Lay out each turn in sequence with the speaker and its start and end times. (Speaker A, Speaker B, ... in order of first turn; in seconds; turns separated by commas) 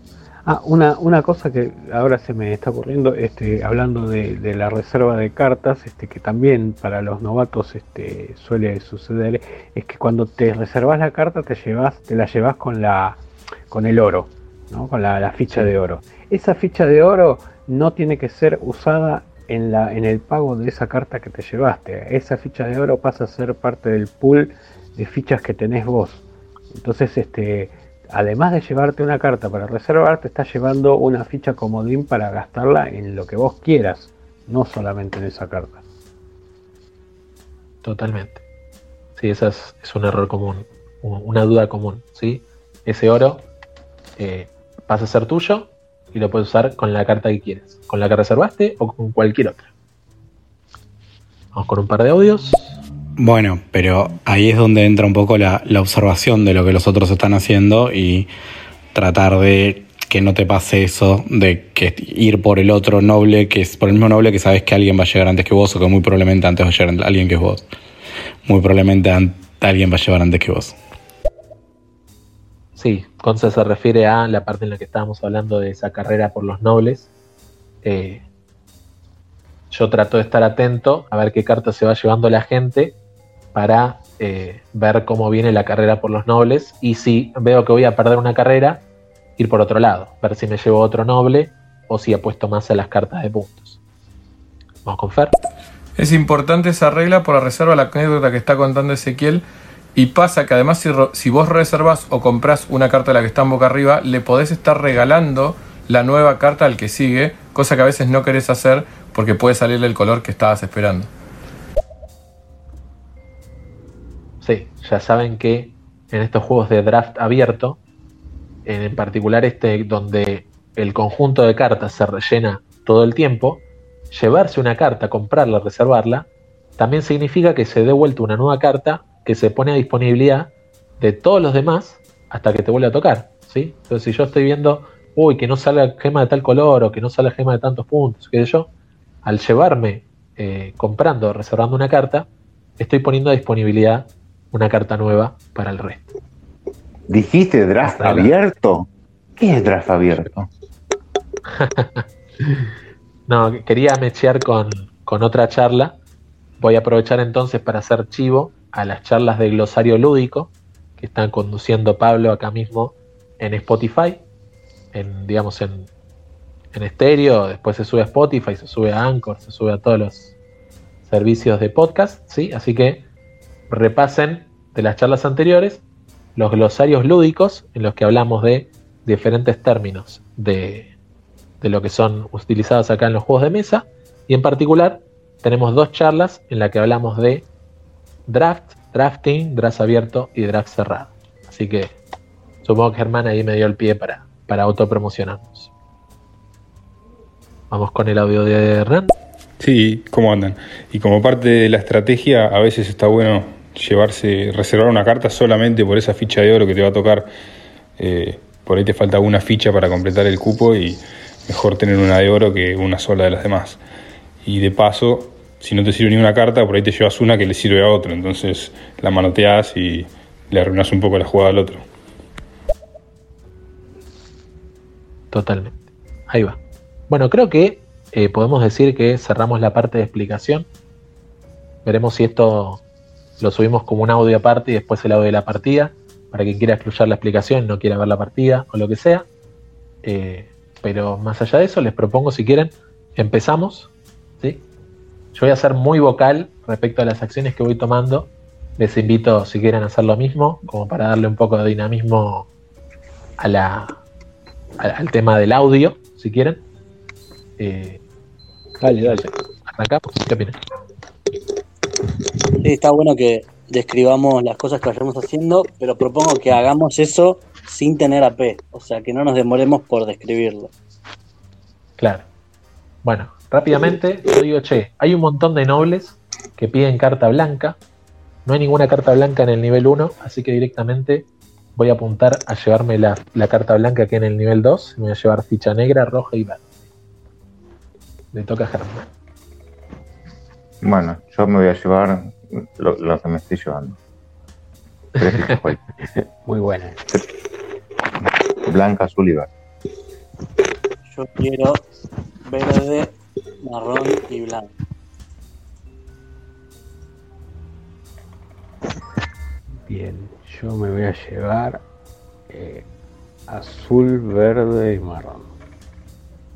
Speaker A: 0.4-35.8, Speaker B: 37.8-38.4, Speaker B: 39.2-43.5, Speaker B: 44.2-49.7, Speaker B: 51.5-52.7, Speaker C: 53.2-58.3, Speaker C: 58.9-67.7, Speaker C: 68.5-70.8, Speaker B: 72.8-77.1, Speaker B: 77.8-78.2, Speaker B: 79.7-83.0, Speaker B: 83.5-88.8, Speaker B: 89.4-93.8, Speaker B: 94.8-95.3, Speaker D: 96.0-99.4, Speaker D: 99.9-111.1, Speaker B: 114.4-117.8, Speaker B: 118.7-138.7, Speaker B: 139.2-142.3, Speaker B: 142.8-146.1, Speaker E: 147.1-150.5, Speaker B: 147.8-148.3, Speaker B: 151.5-152.7, Speaker B: 153.3-156.0, Speaker B: 156.6-164.2, Speaker B: 164.9-165.9, Speaker B: 166.7-170.3, Speaker B: 171.1-173.0, Speaker B: 173.7-175.8, Speaker B: 176.3-180.9, Speaker B: 181.6-187.5, Speaker B: 188.3-191.9, Speaker B: 192.6-195.7, Speaker B: 197.7-199.1, Speaker F: 199.6-207.3, Speaker F: 208.0-213.8, Speaker F: 214.4-221.8, Speaker B: 225.3-226.6, Speaker B: 227.1-230.7, Speaker B: 231.8-232.8, Speaker B: 233.4-239.2, Speaker B: 240.0-244.6, Speaker B: 245.3-252.5, Speaker B: 253.4-254.0, Speaker B: 254.8-256.6, Speaker B: 257.6-258.0, Speaker A: 258.8-259.3, Speaker B: 259.0-260.6, Speaker G: 262.6-270.7, Speaker B: 272.0-272.2, Speaker B: 273.0-277.8, Speaker B: 278.4-286.6, Speaker B: 288.3-289.1, Speaker E: 290.8-294.0, Speaker E: 295.2-295.8, Speaker A: 296.1-297.0, Speaker E: 298.6-299.5, Speaker G: 301.1-301.9, Speaker G: 302.4-304.7, Speaker A: 309.9-311.8, Speaker A: 312.5-312.9, Speaker A: 313.5-315.5